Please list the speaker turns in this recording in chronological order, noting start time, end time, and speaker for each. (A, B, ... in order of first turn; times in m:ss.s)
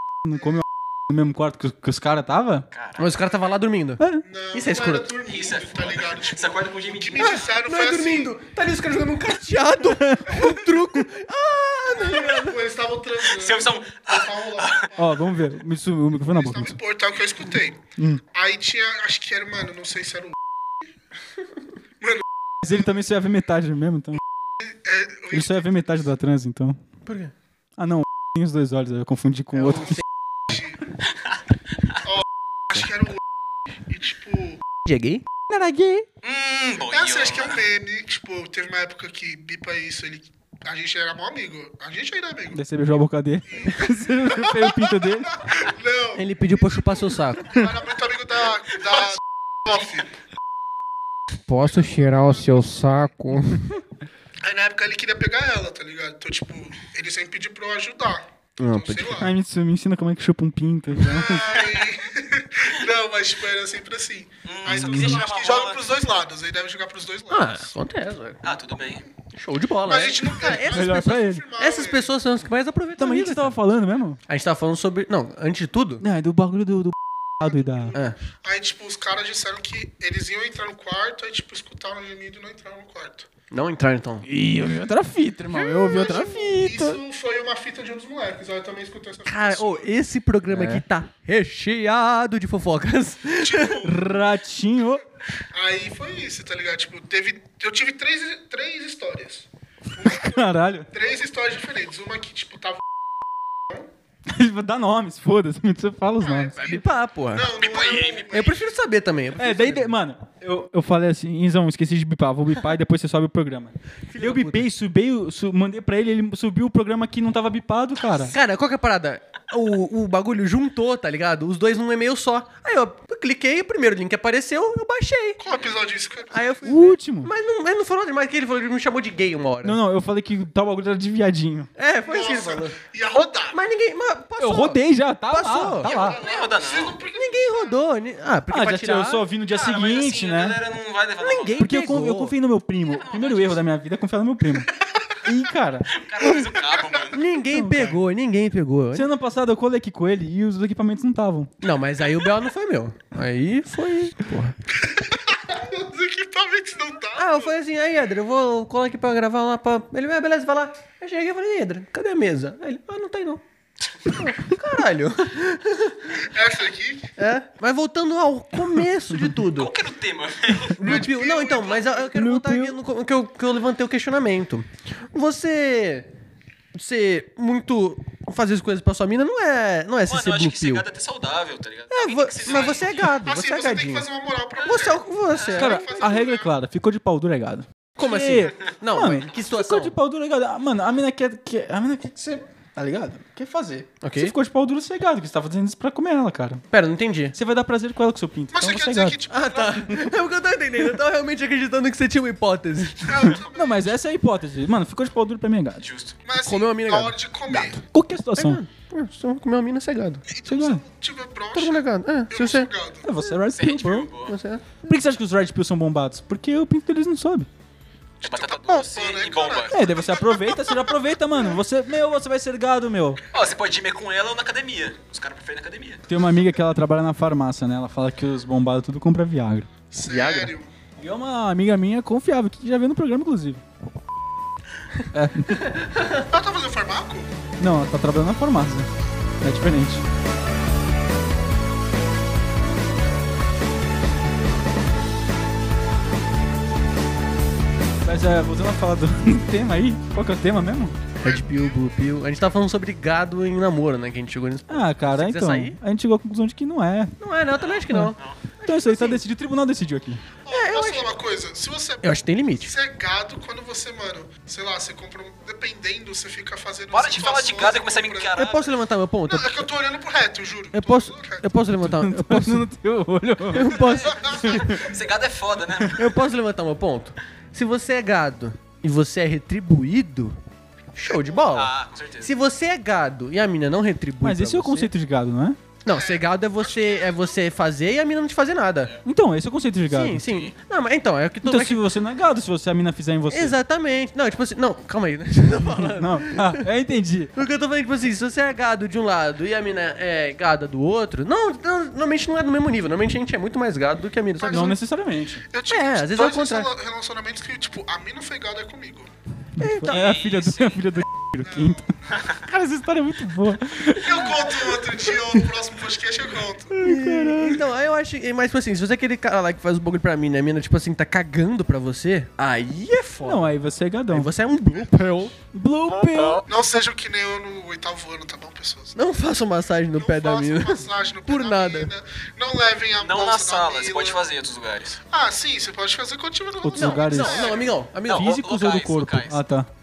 0:00.2-0:02.6 A
0:02.7-0:03.0 B
0:03.0-0:04.0 C
0:04.0-0:04.2 A
0:04.2-0:08.3 D
0:04.5-0:05.1 C
0:05.2-0:07.6 B
0:07.2-0:12.6 C
0:10.0-0:10.5 A
0:11.8-0:15.4 D
0:13.2-0:15.0 B
0:15.0-0:16.8 A
0:16.2-0:17.8 D
0:18.0-0:18.2 A
0:18.3-0:20.4 D
0:22.0-0:22.7 D
0:22.6-0:24.2 A
0:24.6-0:25.7 D
0:25.3-0:26.8 A
0:27.0-0:27.3 C
0:27.8-0:30.0 A
0:29.7-0:30.0 D
0:29.7-0:30.0 C
0:30.5-0:30.8 D
0:32.0-0:33.2 D
0:33.8-0:34.6 D
0:34.8-0:35.2 C
0:35.5-0:36.0 A
0:36.2-0:37.6 B
0:36.9-0:42.6 D
0:42.5-0:45.3 A
0:43.5-0:50.1 D
0:46.2-0:47.5 C
0:51.4-0:53.8 C
0:51.6-0:52.8 D
0:54.4-0:59.3 D
0:58.6-0:59.2 C
0:59.2-1:01.5 A
1:01.0-1:07.7 D
1:01.5-1:01.9 B
1:04.4-1:05.9 B
1:04.7-1:05.3 A
1:07.3-1:08.4 C
1:08.4-1:09.0 B
1:09.3-1:13.6 C
1:09.8-1:12.1 D
1:10.6-1:11.4 A
1:13.0-1:14.2 A
1:14.3-1:16.0 C
1:16.0-1:17.9 A
1:17.4-1:23.3 D
1:23.5-1:24.2 C
1:24.2-1:27.0 A
1:25.5-1:29.9 D
1:29.3-1:33.9 C
1:30.5-1:30.8 A
1:33.4-1:34.0 D
1:33.8-1:35.0 A
1:35.5-1:42.8 D
1:40.0-1:40.9 A
1:44.3-1:46.6 A
1:46.2-1:48.6 D
1:46.6-1:47.5 C
1:47.6-1:48.5 B
1:48.3-1:50.0 C
1:49.4-1:58.4 A
1:54.1-1:54.6 C
1:58.2-2:05.4 C
2:05.4-2:06.5 D
2:06.3-2:09.8 C
2:06.6-2:07.3 A
2:09.6-2:11.7 A
2:11.8-2:12.8 C
2:12.0-2:13.6 D
2:13.5-2:16.0 C
2:14.4-2:16.2 A
2:15.8-2:17.8 D
2:16.0-2:17.0 B
2:17.1-2:19.2 C
2:18.5-2:20.6 A
2:19.5-2:21.7 B
2:21.2-2:22.3 C
2:21.6-2:24.7 A
2:22.8-2:23.6 B
2:25.2-2:25.9 A
2:25.9-2:27.2 B
2:26.2-2:27.2 D
2:27.1-2:29.1 C
2:27.5-2:28.0 A
2:28.9-2:31.5 A
2:31.6-2:34.5 C
2:34.9-2:37.6 D
2:37.1-2:43.4 C
2:44.0-2:46.2 C
2:46.2-2:47.1 D
2:47.2-2:49.7 C
2:49.5-2:51.0 B
2:50.6-2:56.1 C
2:50.8-2:52.1 D
2:52.1-2:52.8 A
2:56.7-3:00.9 C
3:00.0-3:03.2 B
3:01.9-3:06.3 C
3:02.4-3:05.0 D
3:05.5-3:06.5 D
3:05.5-3:16.6 A
3:08.0-3:10.0 C
3:14.0-3:14.3 C
3:16.7-3:17.4 C
3:17.3-3:19.2 A
3:18.5-3:20.0 D
3:19.3-3:23.2 C
3:23.0-3:24.0 D
3:23.2-3:25.8 A
3:25.8-3:26.2 B
3:26.2-3:27.8 D
3:26.4-3:27.8 C
3:27.8-3:28.6 A
3:28.4-3:30.2 C
3:30.2-3:33.1 D
3:30.4-3:30.8 A
3:31.5-3:32.7 C
3:33.0-3:34.1 A
3:33.5-3:34.3 B
3:34.3-3:34.7 C
3:34.8-3:37.5 A
3:38.2-3:41.0 D
3:38.2-3:39.8 B
3:39.7-3:43.2 A
3:43.3-3:46.0 B
3:46.1-3:53.6 A
3:49.9-3:50.7 D
3:55.1-3:55.8 A
3:56.2-3:57.3 D
3:57.6-3:58.9 A
3:59.4-4:00.0 A
4:08.0-4:11.0 A
4:11.2-4:15.8 C
4:11.2-4:11.9 D
4:14.7-4:17.1 A
4:17.2-4:19.2 C
4:17.5-4:18.4 B
4:17.9-4:20.2 A
4:20.4-4:28.4 D
4:20.5-4:21.2 C
4:22.0-4:22.7 C
4:26.9-4:28.7 B
4:28.3-4:29.6 C
4:29.3-4:31.6 D
4:30.7-4:32.7 C
4:31.8-4:33.9 A
4:33.5-4:34.8 C
4:33.8-4:34.6 D
4:34.4-4:34.9 A
4:34.4-4:36.0 B
4:35.9-4:40.4 C
4:40.9-4:44.9 C
4:41.5-4:42.3 B
4:44.2-4:45.6 A
4:45.8-4:48.9 C
4:45.8-4:47.4 D
4:49.0-4:50.2 A
4:49.9-4:51.8 C
4:50.2-4:50.5 B
4:51.4-4:53.5 A
4:53.3-4:56.6 C
4:55.6-4:57.3 A
4:57.3-5:04.8 C
5:04.4-5:04.8 D
5:04.4-5:05.4 A
5:05.5-5:09.1 D
5:05.7-5:06.7 C
5:09.6-5:14.4 A
5:09.6-5:10.1 C
5:09.9-5:10.9 B
5:11.4-5:11.9 D
5:14.0-5:16.7 D
5:14.6-5:15.4 C
5:16.7-5:23.6 C
5:16.8-5:17.6 A
5:23.2-5:24.3 A
5:24.1-5:25.3 C
5:25.5-5:26.4 A
5:26.0-5:26.4 B
5:26.4-5:29.0 D
5:28.9-5:31.9 C
5:30.0-5:34.3 D
5:33.0-5:35.0 B
5:35.1-5:37.8 D
5:36.6-5:39.7 A
5:36.7-5:38.3 C
5:38.0-5:39.4 B